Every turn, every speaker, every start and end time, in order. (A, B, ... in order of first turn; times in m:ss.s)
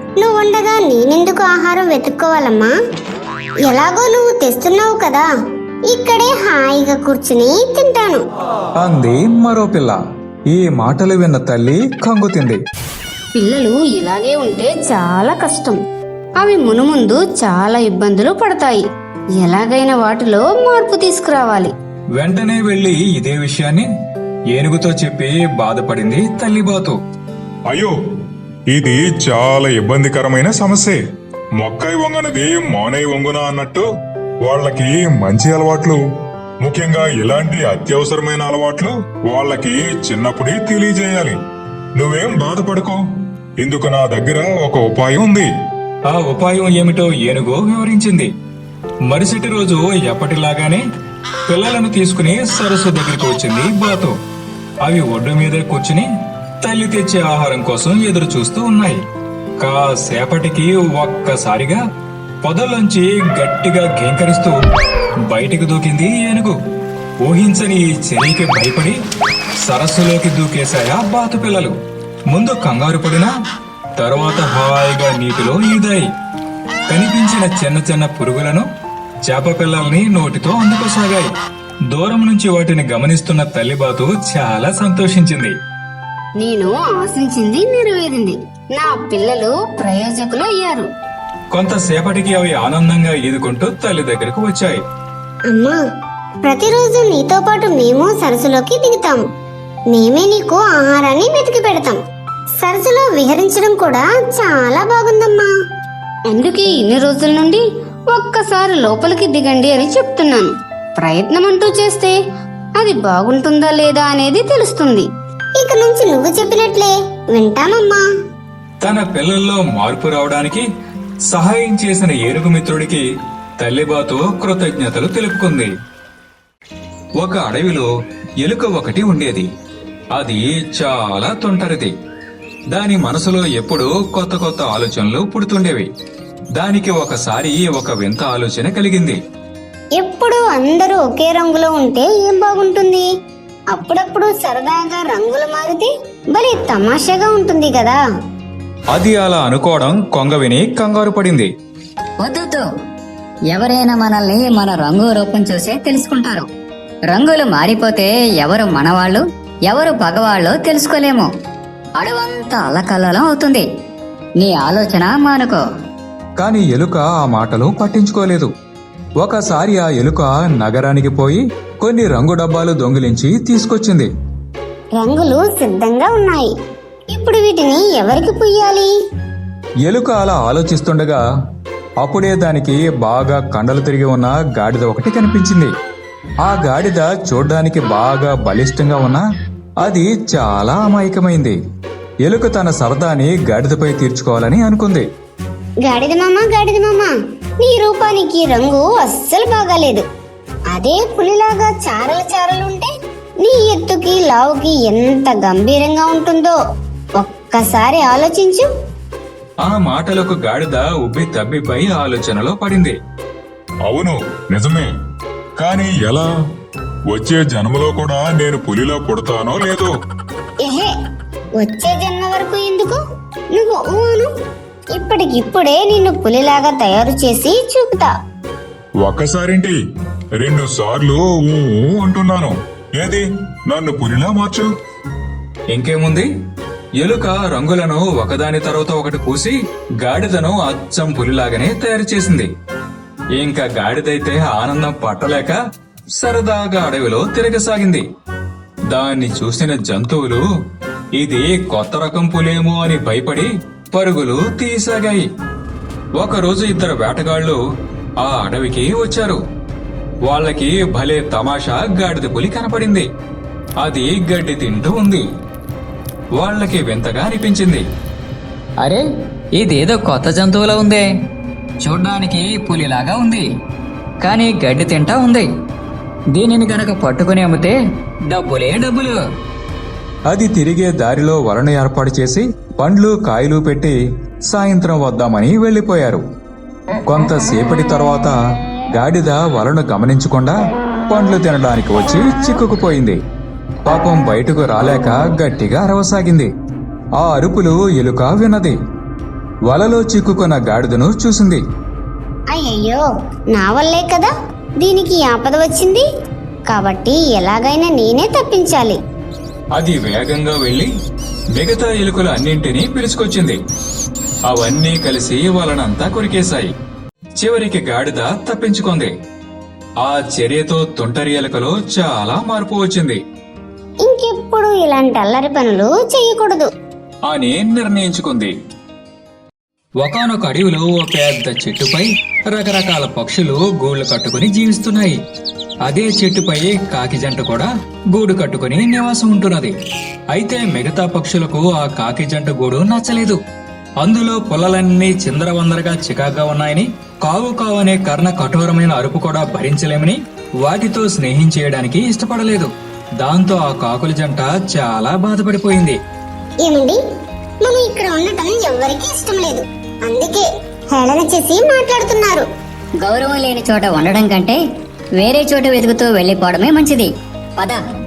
0:00.2-0:02.7 A
0:03.6-0:05.3 A
0:05.9-0:08.2 A
0:08.8-0:10.0 B
0:10.5-0:12.6 B
0:13.4-0:15.8 C
0:16.4-0:18.8 C
0:19.4-0:21.7 C
0:22.2-0:23.9 B
0:24.5-0:27.0 B
0:27.7-0:27.9 D
0:28.7-0:31.0 D
0:31.6-0:33.8 D
0:34.4-0:36.0 D
0:36.6-0:41.4 D
0:42.0-0:43.0 D
0:43.6-0:45.5 D
0:46.1-0:48.3 B
0:49.1-0:50.8 B
0:51.5-0:54.1 B
0:54.8-0:56.1 B
0:56.6-0:59.0 B
0:59.6-1:01.8 B
1:02.4-1:04.6 B
1:05.3-1:06.6 B
1:07.2-1:09.0 B
1:09.6-1:11.7 B
1:12.3-1:13.3 B
1:14.0-1:16.1 B
1:16.9-1:18.7 B
1:19.2-1:21.3 B
1:21.9-1:25.5 B
1:26.4-1:28.3 C
1:28.9-1:29.4 C
1:29.8-1:30.3 A
1:30.4-1:30.8 C
1:31.5-1:34.8 B
1:35.5-1:35.8 A
1:36.4-1:39.2 A
1:39.9-1:42.0 A
1:42.6-1:45.5 A
1:46.3-1:47.6 C
1:48.1-1:50.4 C
1:51.0-1:52.1 C
1:52.8-1:55.0 C
1:55.6-1:58.0 A
1:58.8-2:00.6 B
2:01.3-2:03.0 B
2:03.6-2:05.7 B
2:07.2-2:07.9 B
2:08.4-2:09.5 B
2:10.1-2:11.9 B
2:12.7-2:15.9 B
2:16.6-2:19.2 B
2:20.0-2:23.1 A
2:23.7-2:28.0 A
2:28.9-2:31.5 B
2:32.2-2:32.6 E
2:33.5-2:36.5 E
2:37.1-2:41.3 E
2:42.0-2:43.6 E
2:44.4-2:45.6 E
2:46.4-2:48.5 B
2:49.2-2:54.1 B
2:55.0-2:56.5 A
2:57.1-2:58.9 A
2:59.8-3:01.2 B
3:02.0-3:05.7 B
3:06.4-3:09.2 B
3:09.8-3:11.6 B
3:12.2-3:15.1 B
3:15.8-3:17.1 A
3:17.6-3:20.0 A
3:20.7-3:22.9 A
3:23.4-3:26.6 A
3:27.2-3:28.6 A
3:29.6-3:33.0 B
3:33.8-3:34.9 D
3:35.6-3:36.3 D
3:37.1-3:39.9 D
3:40.6-3:40.9 A
3:41.6-3:43.0 A
3:43.5-3:44.3 A
3:44.9-3:48.1 A
3:49.0-3:49.8 D
3:50.4-3:54.7 D
3:55.7-3:56.3 B
3:57.0-4:02.5 B
4:03.4-4:05.6 B
4:06.2-4:08.0 B
4:08.9-4:10.4 B
4:11.2-4:15.3 B
4:16.2-4:17.6 B
4:18.2-4:19.4 B
4:20.2-4:23.1 B
4:23.8-4:25.2 B
4:26.4-4:27.8 B
4:28.8-4:31.0 E
4:31.8-4:33.5 E
4:34.2-4:35.5 E
4:36.3-4:39.2 E
4:40.3-4:44.0 B
4:44.5-4:46.2 B
4:47.0-4:48.3 B
4:48.9-4:50.6 B
4:51.1-4:53.2 B
4:53.8-4:56.5 B
4:57.2-4:58.8 B
4:59.7-5:01.6 B
5:02.5-5:03.0 A
5:03.6-5:04.3 A
5:04.8-5:06.0 A
5:06.7-5:09.0 A
5:09.7-5:10.9 B
5:11.5-5:13.6 B
5:14.5-5:16.7 B
5:17.4-5:19.1 B
5:20.0-5:23.2 B
5:24.0-5:26.7 A
5:27.2-5:28.5 B
5:30.0-5:35.2 B
5:35.8-5:39.7 B
5:40.3-5:43.4 B
5:44.0-5:56.0 B
5:56.6-5:57.0 A
5:57.6-6:02.4 A
6:03.0-6:04.6 E
6:05.2-6:07.8 E